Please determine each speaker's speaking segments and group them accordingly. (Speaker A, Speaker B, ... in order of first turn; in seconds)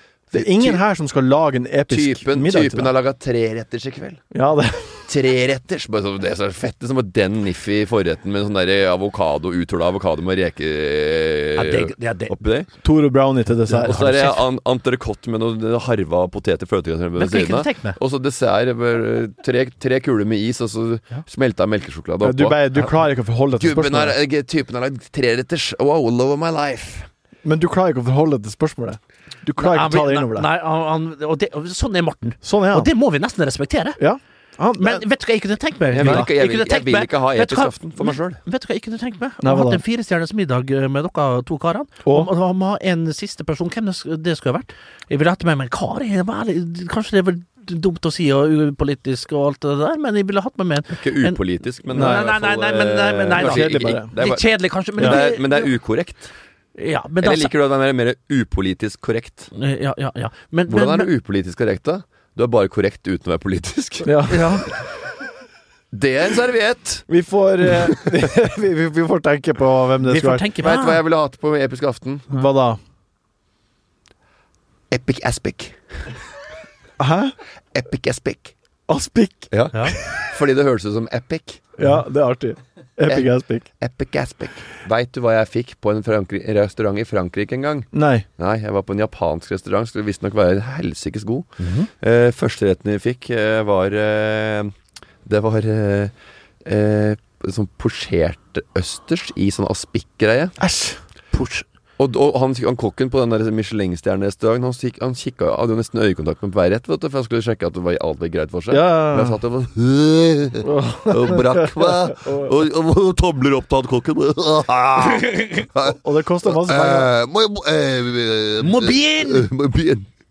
Speaker A: 0.3-0.8, 1.9-4.2, 5.1-12.7, 13.8-22.6, 23.5-27.1, 35.9-38.4, 50.9-56.3, 57.2-59.5, 60.7-64.2, 65.9-67.0, 67.6-68.2, 70.6-72.3, 74.9-75.8, 77.7-78.5, 79.5-81.6, 83.8-94.7, 95.2-96.1, 96.6-100.5, 102.0-120.1
Speaker B: 0.3-2.9, 4.3-5.0, 12.8-14.0, 22.2-24.1, 27.4-30.5, 32.4-32.9, 34.0-35.0, 36.0-36.3, 39.4-39.8, 51.9-52.2, 53.4-54.1, 64.0-64.6, 67.1-70.5, 72.3-72.8, 77.0-77.3, 78.9-80.2, 81.8-83.7, 87.9-88.2, 100.6-101.0, 108.7-109.4, 110.6-112.5, 115.8-117.1
Speaker C: 11.6-12.4, 13.7-14.4, 17.1-18.0, 29.6-34.0, 34.8-55.7, 56.8-57.5, 59.5-61.1, 64.3-64.7, 70.0-71.0, 91.6-91.9, 101.3-101.6, 118.6-119.5